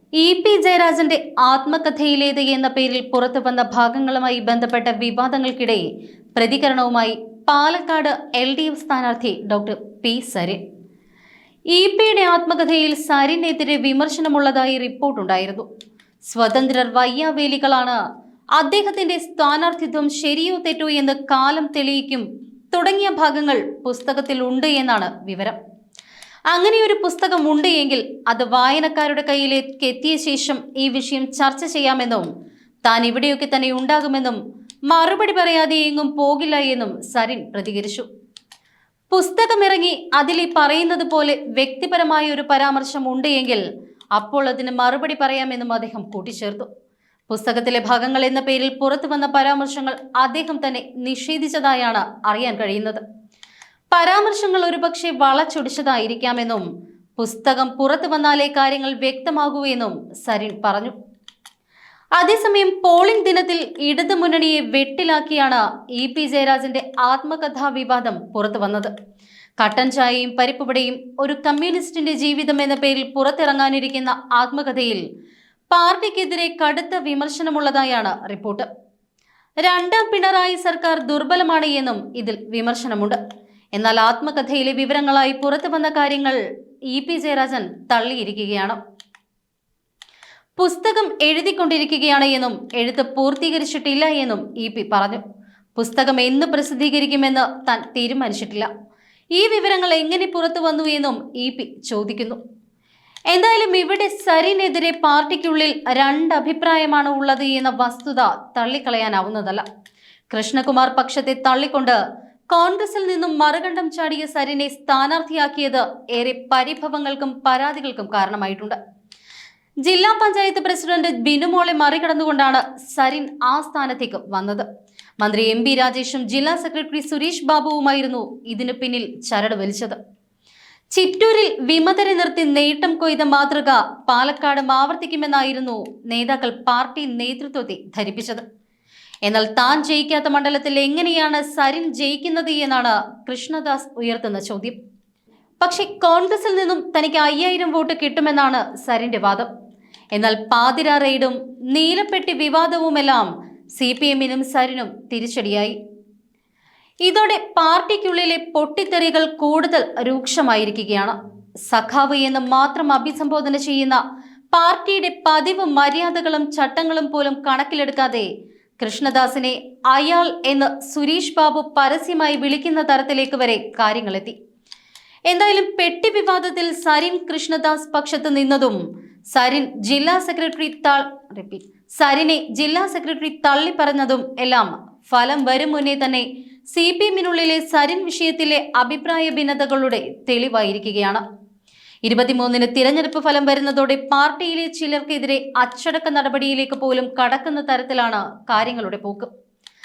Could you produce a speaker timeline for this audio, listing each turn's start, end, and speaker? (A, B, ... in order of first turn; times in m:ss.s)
0:00.2-0:05.8 A
0:06.3-0:10.6 A
0:11.7-0:15.6 A
0:16.2-0:18.0 A
0:18.6-0:25.6 A
0:26.5-0:32.2 A
0:32.8-0:34.4 A
0:34.9-0:38.1 A
0:39.1-0:43.6 A
0:44.2-0:46.7 A
0:47.3-0:53.0 A
0:53.9-0:56.6 A
0:57.2-1:00.9 A
1:02.2-1:08.9 A
1:09.6-1:15.0 A
1:15.7-1:18.7 A
1:19.6-1:23.2 A
1:23.8-1:26.4 A
1:26.9-1:28.8 A
1:30.6-1:35.2 A
1:35.8-1:38.7 A
1:39.3-1:42.4 A
1:43.3-1:49.6 A
1:50.3-1:52.0 A
1:52.5-1:58.8 A
1:59.8-2:04.6 A
2:05.2-2:10.0 A
2:10.9-2:18.4 A
2:19.2-2:24.8 A
2:25.6-2:29.5 A
2:30.1-2:35.8 A
2:37.0-2:41.1 A
2:41.7-2:44.0 A
2:44.5-2:48.3 A
2:48.8-2:54.4 A
2:55.3-2:58.8 A
2:59.3-3:11.2 A
3:12.0-3:19.3 A